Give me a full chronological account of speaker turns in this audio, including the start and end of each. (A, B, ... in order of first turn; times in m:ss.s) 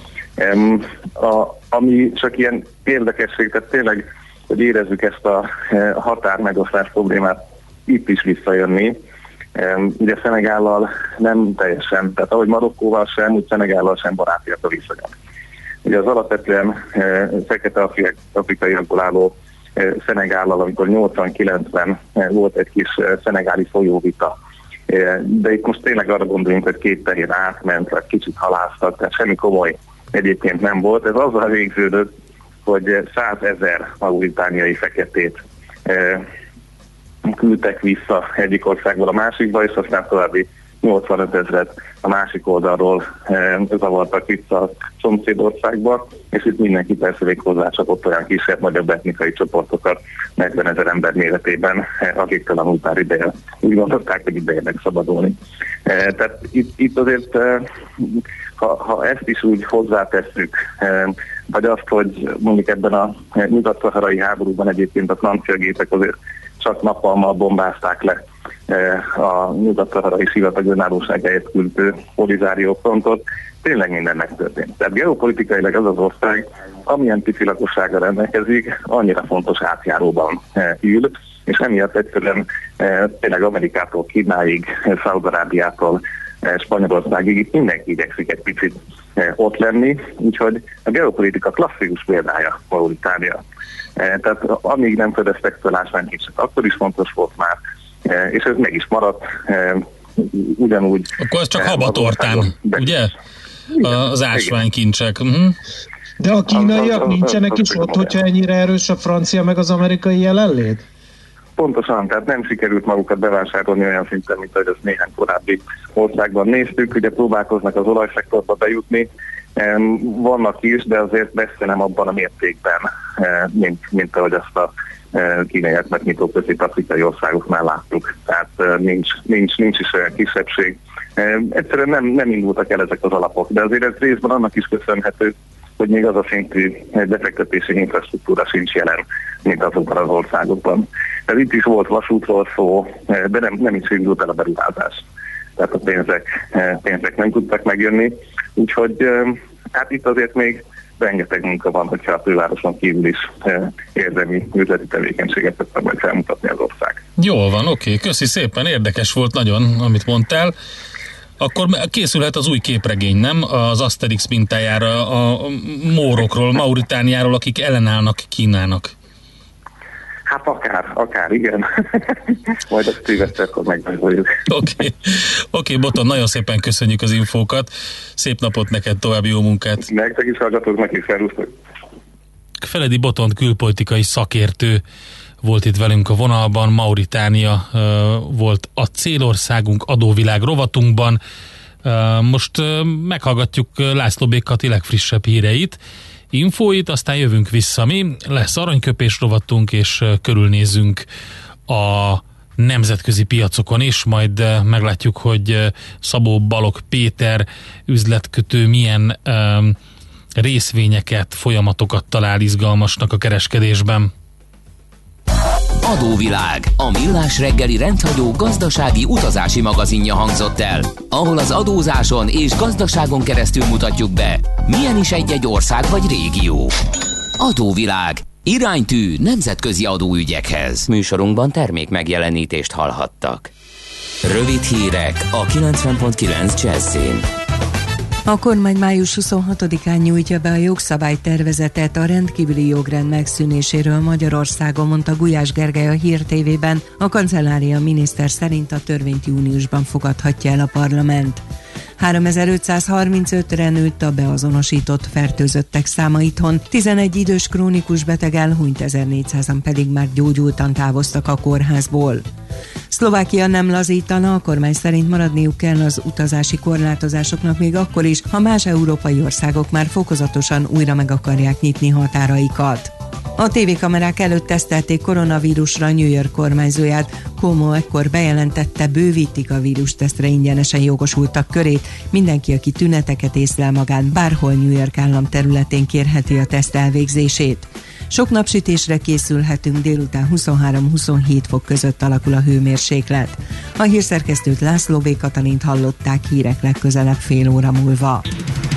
0:00.4-0:09.0 A
0:09.6-0:15.1 A
0:15.9-0:24.3 A
0:24.9-0:32.1 A
0:32.7-0:36.3 A
0:37.2-1:33.4 A
1:34.0-1:43.1 A
1:41.2-1:43.1 B
1:43.7-1:45.6 B
1:43.8-1:44.5 A
1:46.2-1:50.8 C
1:46.5-1:48.1 A
1:51.6-2:25.0 A
2:25.6-2:37.0 A
2:37.2-2:40.5 B
2:41.4-2:48.9 B
2:50.3-2:54.4 A
2:54.5-2:59.8 B
2:59.8-3:01.5 A
3:02.6-3:04.8 B
3:05.4-3:11.2 B
3:11.8-3:15.8 B
3:16.3-3:21.0 B
3:21.7-3:29.8 B
3:30.4-3:34.1 B
3:35.8-3:46.8 D
3:47.4-3:53.5 D
3:54.2-3:57.3 D
3:58.3-4:11.4 E
4:12.0-4:22.2 E
4:22.9-4:58.3 E